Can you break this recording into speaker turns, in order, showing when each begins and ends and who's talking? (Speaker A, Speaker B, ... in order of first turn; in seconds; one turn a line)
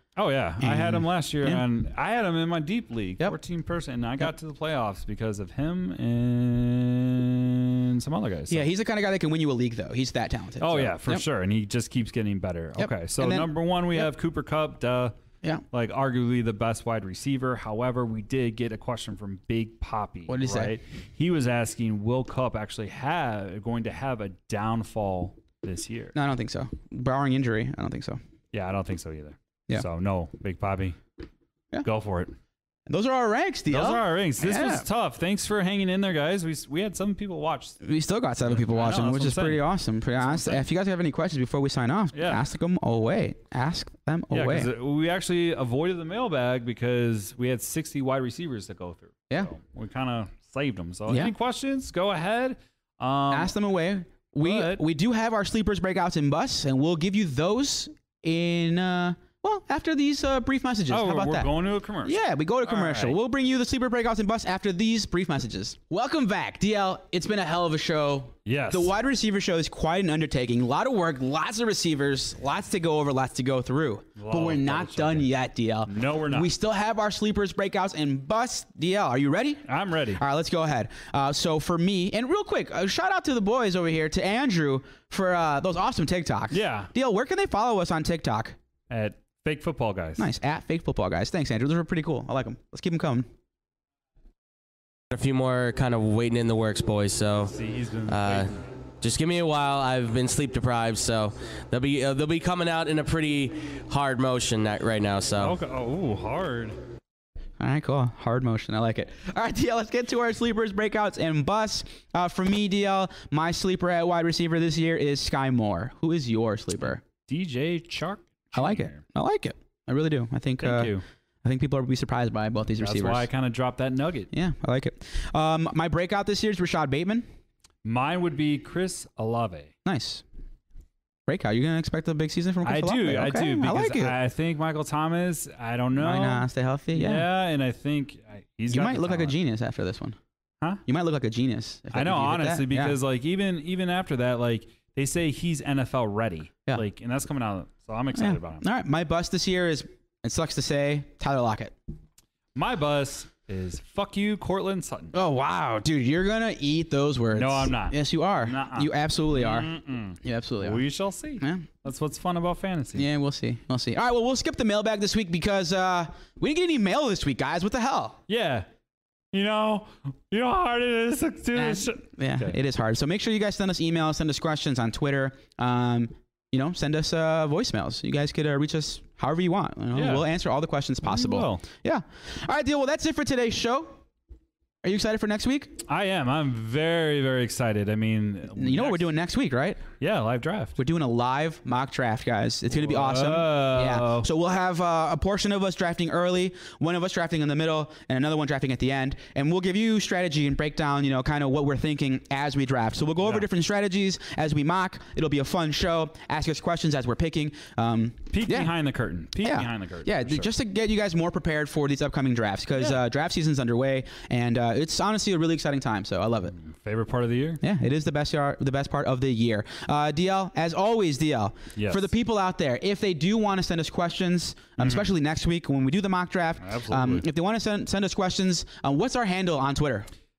Speaker A: 0.1-8.7
Speaker B: 0.6-1.6
Speaker B: 8.5-11.2
Speaker A: 10.6-15.1
Speaker B: 12.8-14.1
Speaker A: 15.7-26.1
Speaker B: 20.3-20.7
Speaker B: 26.1-28.2
Speaker A: 28.5-31.0
Speaker A: 31.8-32.4
Speaker B: 32.9-34.9
Speaker A: 33.7-37.8
Speaker B: 37.8-44.7
Speaker A: 38.4-39.6
Speaker A: 40.2-40.6
Speaker A: 42.1-42.4
Speaker A: 44.3-53.5
Speaker B: 51.1-51.3
Speaker B: 53.3-61.5
Speaker A: 54.4-54.8
Speaker A: 60.9-63.2
Speaker B: 62.0-88.6
Speaker A: 68.4-68.9
Speaker A: 74.2-75.3
Speaker A: 75.8-76.5
Speaker A: 79.7-80.2
Speaker A: 86.5-86.9
Speaker A: 88.9-90.3
Speaker B: 90.2-93.3
Speaker C: 95.1-97.5
Speaker A: 97.5-98.6
Speaker C: 98.1-105.5
Speaker A: 105.4-106.8
Speaker B: 107.6-117.0
Speaker A: 117.3-119.0
Speaker B: 118.5-123.3
Speaker A: 120.6-121.0
Speaker A: 122.8-124.3
Speaker B: 124.3-127.2
Speaker A: 127.8-129.7
Speaker B: 129.8-130.2
Speaker B: 131.3-134.1
Speaker A: 132.6-139.3
Speaker B: 136.0-137.3
Speaker B: 138.7-140.2
Speaker B: 140.8-142.9
Speaker A: 141.9-148.7
Speaker B: 148.1-151.7
Speaker A: 152.5-155.1
Speaker B: 155.1-159.7
Speaker A: 157.3-163.1
Speaker B: 160.2-160.8
Speaker B: 161.4-161.7
Speaker B: 162.9-168.2
Speaker A: 168.3-168.7
Speaker A: 169.3-172.6
Speaker B: 171.5-184.0
Speaker A: 179.9-180.3
Speaker A: 181.0-181.6
Speaker B: 184.8-185.8
Speaker A: 185.8-189.1
Speaker B: 188.5-189.8
Speaker A: 190.0-190.8
Speaker B: 190.8-208.7
Speaker A: 192.7-194.3
Speaker A: 203.2-203.5
Speaker A: 208.3-210.5
Speaker B: 209.4-216.6
Speaker A: 216.5-217.6
Speaker B: 217.6-230.1
Speaker A: 221.8-222.1
Speaker A: 224.8-225.1
Speaker A: 226.6-227.2